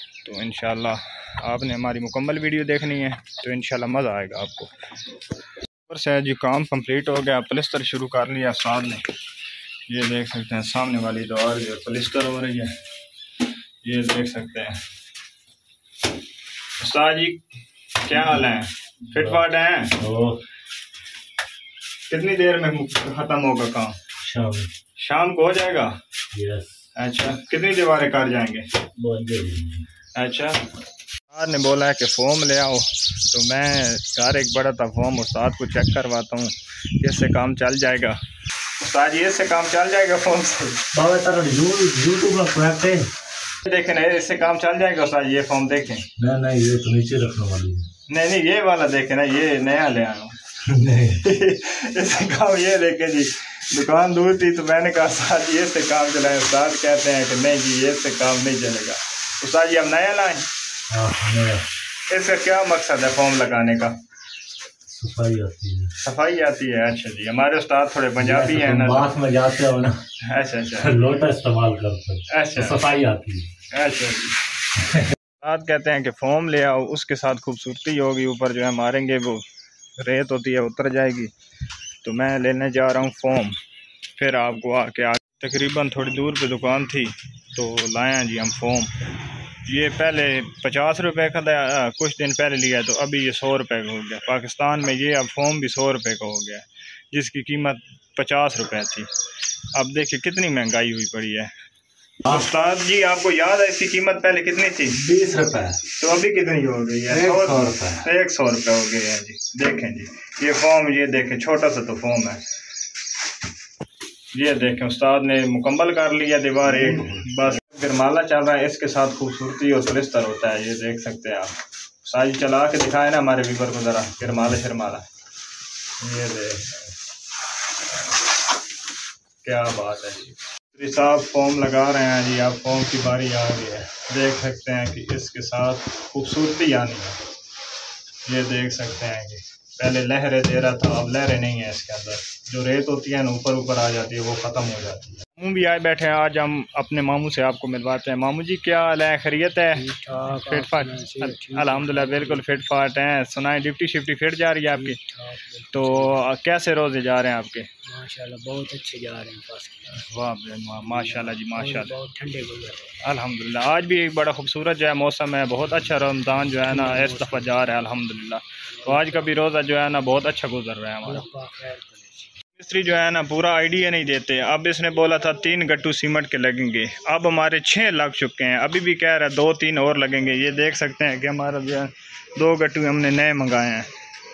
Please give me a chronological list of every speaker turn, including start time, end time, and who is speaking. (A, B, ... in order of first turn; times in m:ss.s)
0:00.2-0:04.7 A
0:05.9-0:09.0 A
0:09.9-0:12.8 A
0:13.8-0:14.8 A
0:16.8-0:17.4 A
0:18.0-0:20.0 A
0:19.1-0:19.4 B
0:20.0-0:20.4 B
0:22.1-0:24.0 A
0:24.2-0:24.7 B
0:25.0-0:26.0 A
0:26.3-0:26.8 B
0:27.0-0:28.7 A
0:29.0-0:29.9 B
0:30.2-0:30.6 A
0:31.3-0:38.2 A
0:38.8-0:40.8 A
0:40.9-0:43.1 B
0:43.6-0:46.1 A
0:46.2-0:47.9 B
0:48.1-0:50.4 A
0:50.6-0:51.3 B
0:51.1-1:00.5 A
1:00.9-1:01.7 B
1:02.1-1:04.0 A
1:04.9-1:05.9 B
1:06.0-1:09.1 A
1:08.2-1:10.0 B
1:10.2-1:11.0 A
1:10.8-1:13.5 B
1:12.3-1:12.8 A
1:13.7-1:14.4 A
1:14.8-1:15.1 B
1:15.4-1:19.5 A
1:20.0-1:21.3 A
1:22.0-1:23.6 A
1:24.2-1:29.0 A
1:29.6-1:39.1 A
1:39.7-1:41.5 A
1:42.2-1:45.0 A
1:45.0-1:45.8 B
1:46.0-1:52.4 A
1:47.1-1:48.1 B
1:54.3-2:05.0 A
1:56.7-1:57.5 B
2:06.0-2:06.9 A
2:09.4-2:17.2 A
2:18.3-2:35.0 A
2:29.7-2:32.4 C
2:34.7-2:36.2 C
2:35.7-2:37.7 A
2:37.8-2:40.1 C
2:39.9-2:42.0 A
2:40.9-2:43.0 C
2:43.0-2:51.3 A
2:46.7-2:47.5 C
2:48.8-2:49.1 C
2:51.0-2:52.3 C
2:52.5-3:03.9 A